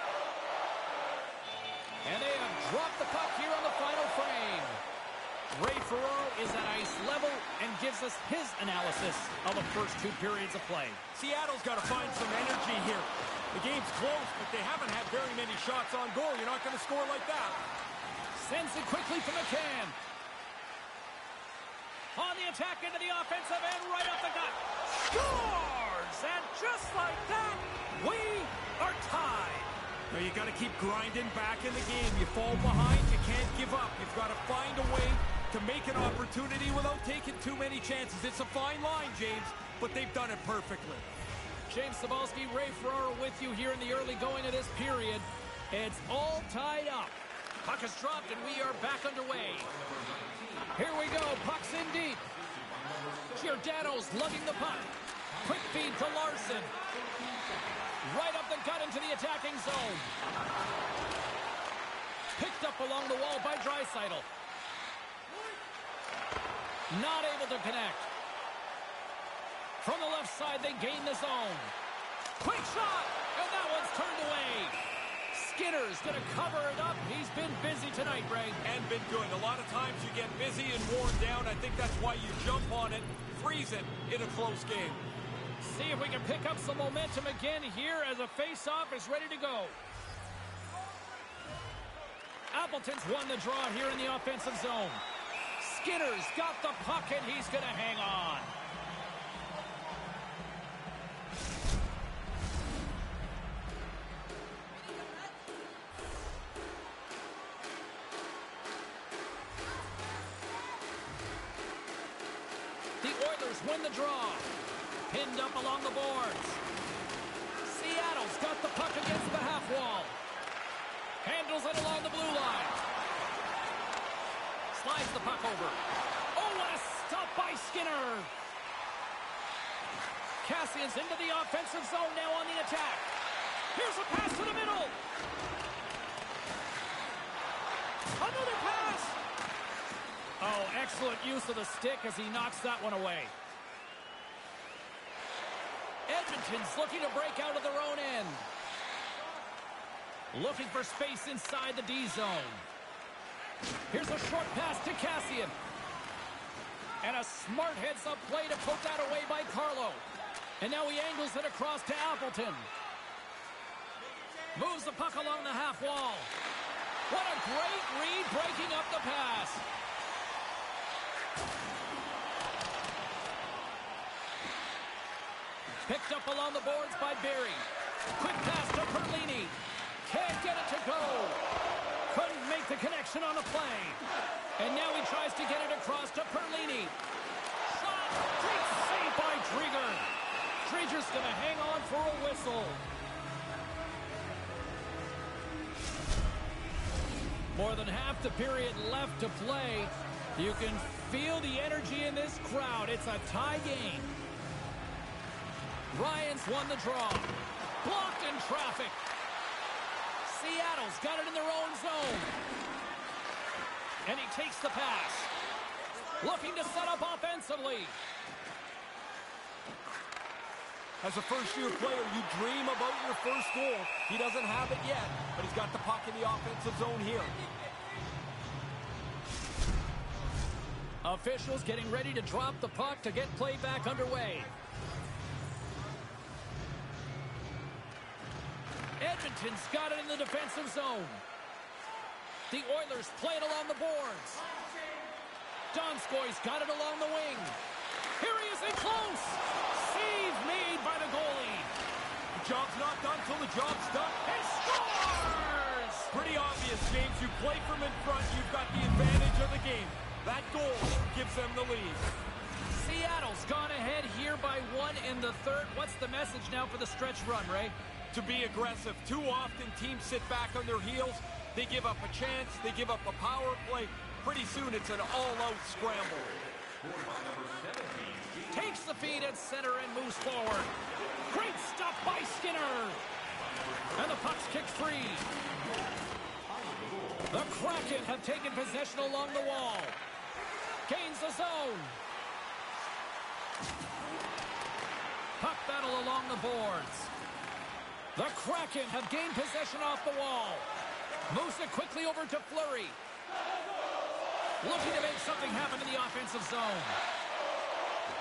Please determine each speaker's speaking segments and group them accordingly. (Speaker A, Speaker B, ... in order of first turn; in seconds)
Speaker A: 2.0-4.8, 5.5-11.0, 18.3-19.9, 22.1-29.7, 41.7-49.7, 50.7-52.3, 53.3-56.7, 58.0-60.1, 62.4-64.3, 66.9-68.1, 69.8-71.7, 72.4-74.8, 75.3-78.6, 85.6-89.8, 92.5-95.0, 95.6-98.5, 113.0-114.5, 115.1-116.6, 117.6-120.2, 121.2-122.8, 124.7-125.8, 126.3-128.3, 130.4-133.1, 133.7-135.0, 138.2-139.2, 140.4-143.3, 146.1-148.5, 150.3-152.7, 153.9-155.5, 157.0-160.0, 160.6-162.7, 164.5-166.3, 167.1-169.6, 175.8-181.4, 182.1-184.0, 184.6-186.9, 187.6-190.1, 190.6-192.8, 197.5-204.1, 205.9-209.0, 210.2-212.3, 214.0-215.3, 216.2-218.0, 231.0-234.5, 239.0-241.2, 242.5-244.4, 245.7-247.6, 248.2-251.7, 254.2-256.1, 262.7-267.7, 278.5-280.7, 281.2-283.0, 283.9-285.3, 287.3-290.0, 290.9-292.0, 295.4-297.1, 298.1-300.7, 301.3-303.0, 304.6-307.0
Speaker B: 11.1-17.6, 30.1-41.1, 78.6-85.0, 221.0-227.3, 252.3-254.2, 256.1-262.1, 268.1-276.4